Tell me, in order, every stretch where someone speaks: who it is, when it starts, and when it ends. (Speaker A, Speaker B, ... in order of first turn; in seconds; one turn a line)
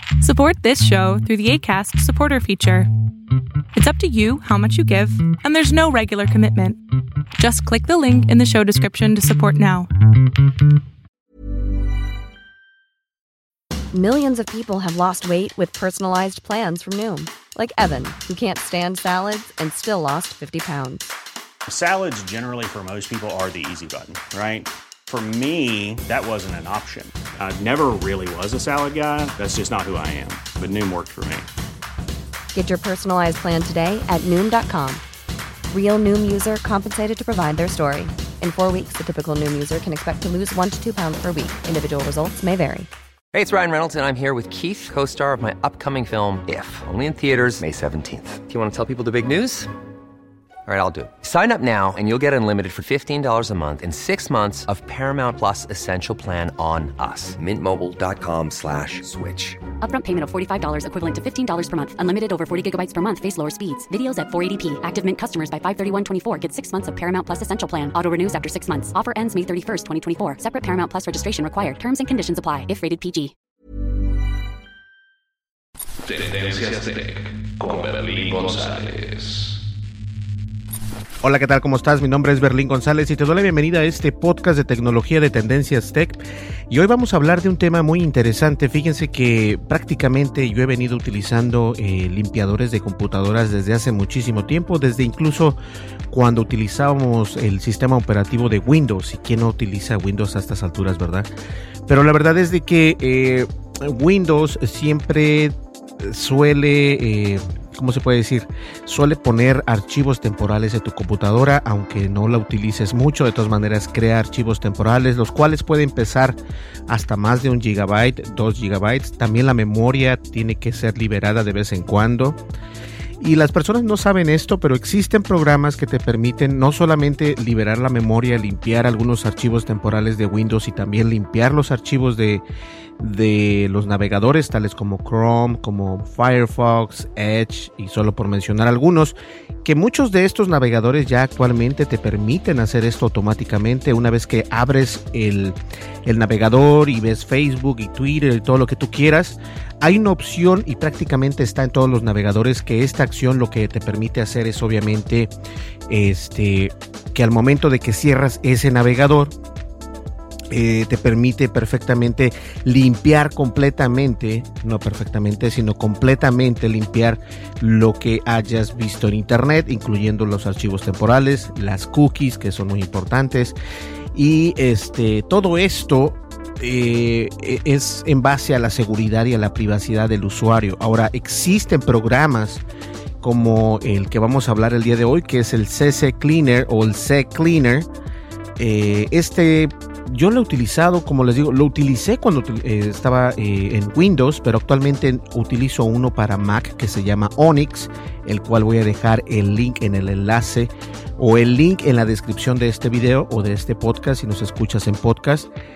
Speaker A: 0.2-2.9
Speaker A: 3.7-6.8
Speaker A: 7.4-9.9
Speaker B: 13.9-21.1
Speaker C: 21.7-31.5
Speaker B: 32.5-35.0
Speaker B: 35.7-42.9
Speaker D: 43.3-49.7
Speaker D: 50.6-59.6
Speaker E: 59.8-73.3
Speaker F: 76.1-79.5
Speaker G: 81.2-86.2
Speaker G: 86.7-95.6
Speaker G: 96.1-101.3
Speaker G: 101.9-116.4
Speaker G: 116.9-122.4
Speaker G: 123.2-132.4
Speaker G: 133.0-155.3
Speaker G: 155.9-159.3
Speaker G: 160.5-173.6
Speaker G: 174.1-182.6
Speaker G: 183.2-187.9
Speaker G: 188.6-205.5